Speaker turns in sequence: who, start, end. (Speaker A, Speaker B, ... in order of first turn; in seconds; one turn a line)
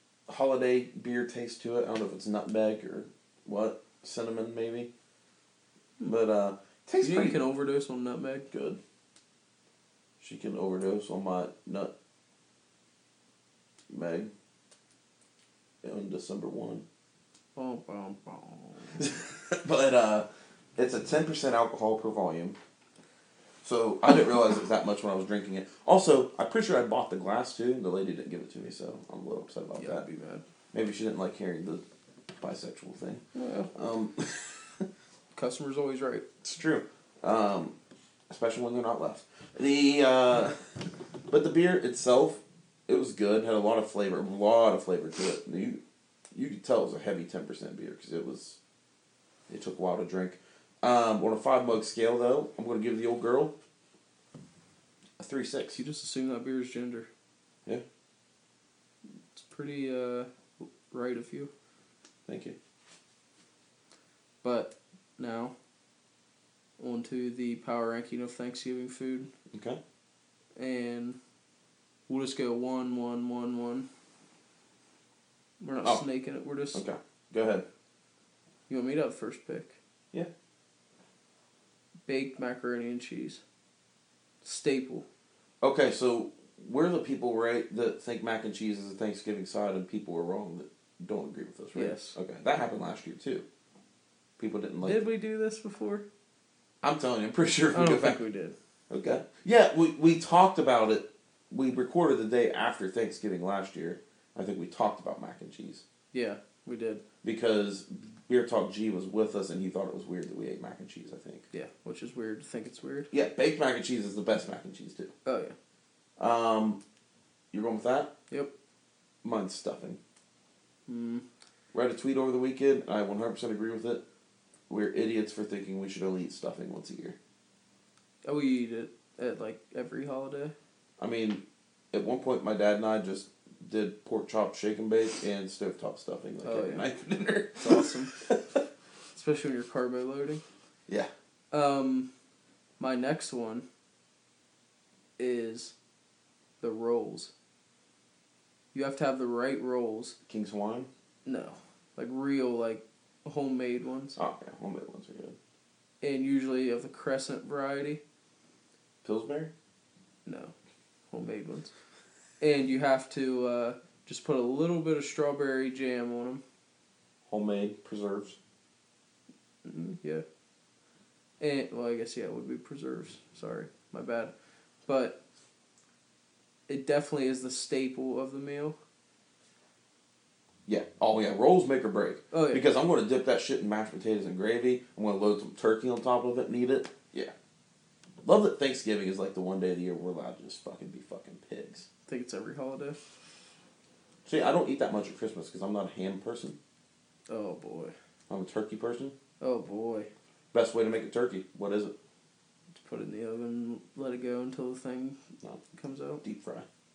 Speaker A: 0.3-4.9
Speaker A: 6.0-7.4
Speaker B: 7.0-8.5
Speaker A: 8.5-8.8
Speaker A: 10.2-11.9
Speaker A: 13.9-14.3
Speaker A: 15.8-16.9
Speaker B: 17.6-19.0
Speaker A: 19.0-22.6
Speaker A: 23.6-30.0
Speaker B: 29.8-30.4
Speaker A: 30.7-31.8
Speaker A: 32.4-33.2
Speaker B: 33.4-33.7
Speaker A: 33.7-34.9
Speaker B: 35.4-36.2
Speaker A: 36.4-37.8
Speaker A: 38.3-40.6
Speaker A: 41.3-45.8
Speaker A: 46.3-48.6
Speaker A: 49.5-53.5
Speaker A: 55.2-55.8
Speaker B: 55.7-57.1
Speaker B: 59.3-61.5
Speaker A: 62.3-62.6
Speaker B: 64.4-65.5
Speaker B: 66.8-69.3
Speaker A: 69.5-69.8
Speaker B: 70.6-71.2
Speaker B: 72.1-73.9
Speaker B: 75.6-76.8
Speaker A: 76.7-77.7
Speaker B: 78.7-79.8
Speaker B: 82.1-83.4
Speaker B: 84.4-85.0
Speaker A: 85.6-93.5
Speaker B: 91.8-92.2
Speaker A: 94.4-95.0
Speaker B: 94.8-96.0
Speaker A: 96.8-98.2
Speaker B: 97.7-98.5
Speaker A: 98.9-105.8
Speaker B: 106.1-107.0
Speaker A: 107.2-111.5
Speaker B: 111.5-113.1
Speaker A: 113.1-115.1
Speaker B: 115.2-115.5
Speaker A: 116.2-116.8
Speaker A: 117.5-118.1
Speaker A: 119.2-120.0
Speaker B: 120.9-121.2
Speaker A: 121.7-124.0
Speaker A: 124.7-127.2
Speaker B: 128.2-130.6
Speaker A: 131.0-138.6
Speaker B: 136.4-136.9
Speaker B: 137.6-138.2
Speaker B: 139.1-140.4
Speaker B: 141.5-142.1
Speaker B: 142.8-143.7
Speaker B: 145.2-145.7
Speaker B: 146.6-147.3
Speaker B: 148.7-150.2
Speaker A: 150.3-150.9
Speaker B: 151.3-154.2
Speaker A: 154.2-155.4
Speaker B: 156.0-158.0
Speaker A: 159.0-159.5
Speaker B: 160.2-160.5
Speaker B: 161.1-161.7
Speaker B: 162.4-166.4
Speaker A: 167.3-168.4
Speaker B: 169.7-170.2
Speaker B: 171.4-174.3
Speaker B: 174.9-175.2
Speaker B: 176.7-178.8
Speaker A: 180.7-187.3
Speaker B: 182.3-182.7
Speaker A: 188.2-191.9
Speaker B: 192.1-193.0
Speaker A: 194.2-196.6
Speaker B: 197.3-197.9
Speaker A: 198.3-199.2
Speaker B: 199.4-200.1
Speaker A: 200.5-201.9
Speaker B: 202.8-205.2
Speaker B: 205.7-206.2
Speaker A: 206.2-206.7